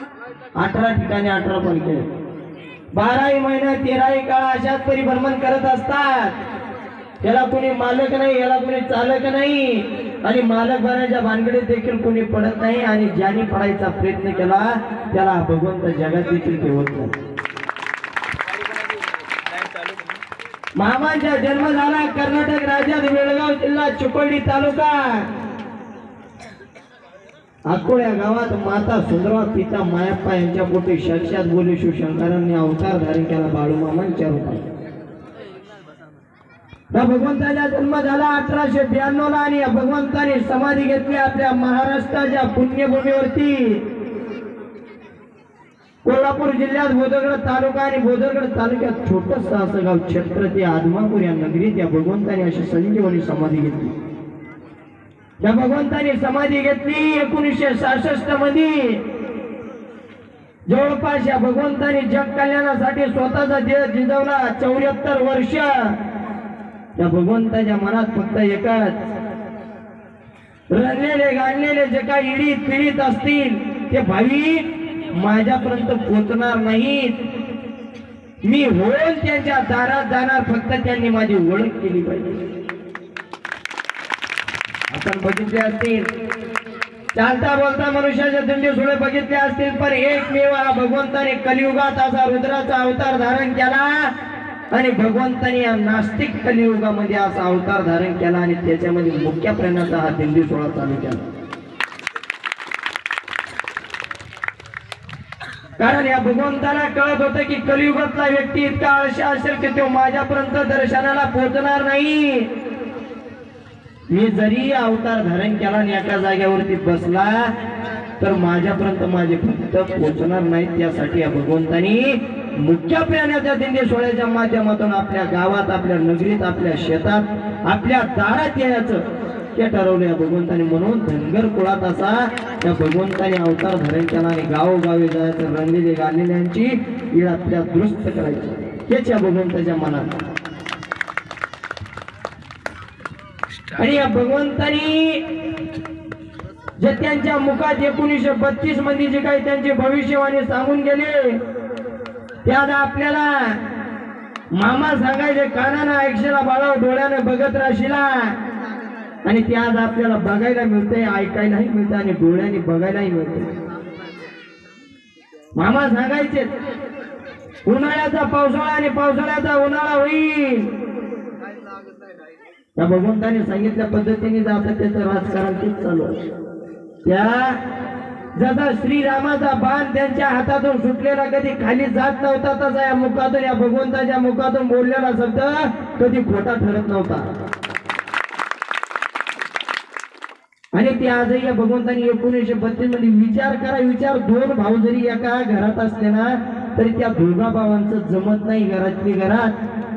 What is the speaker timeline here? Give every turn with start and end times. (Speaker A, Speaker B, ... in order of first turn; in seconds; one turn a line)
Speaker A: 0.6-2.1
Speaker A: 2.9-6.3
Speaker A: 7.2-17.1
Speaker A: 20.8-25.3
Speaker A: 27.7-34.6
Speaker A: 36.9-43.8
Speaker A: 46.0-53.9
Speaker A: 55.4-59.0
Speaker A: 60.7-66.0
Speaker A: 67.0-69.0
Speaker A: 70.7-77.2
Speaker A: 78.4-82.4
Speaker A: 84.9-86.1
Speaker A: 87.1-94.1
Speaker A: 94.7-101.2
Speaker A: 105.8-112.5
Speaker A: 114.1-117.5
Speaker A: 118.2-140.2
Speaker A: 143.7-145.2
Speaker A: 146.8-151.4
Speaker A: 152.4-153.6
Speaker A: 154.5-158.3
Speaker A: 159.2-163.5
Speaker A: 165.5-166.5
Speaker A: 167.6-170.7
Speaker A: 172.8-176.2
Speaker A: 177.0-177.6
Speaker A: 178.3-187.3
Speaker A: 190.7-199.6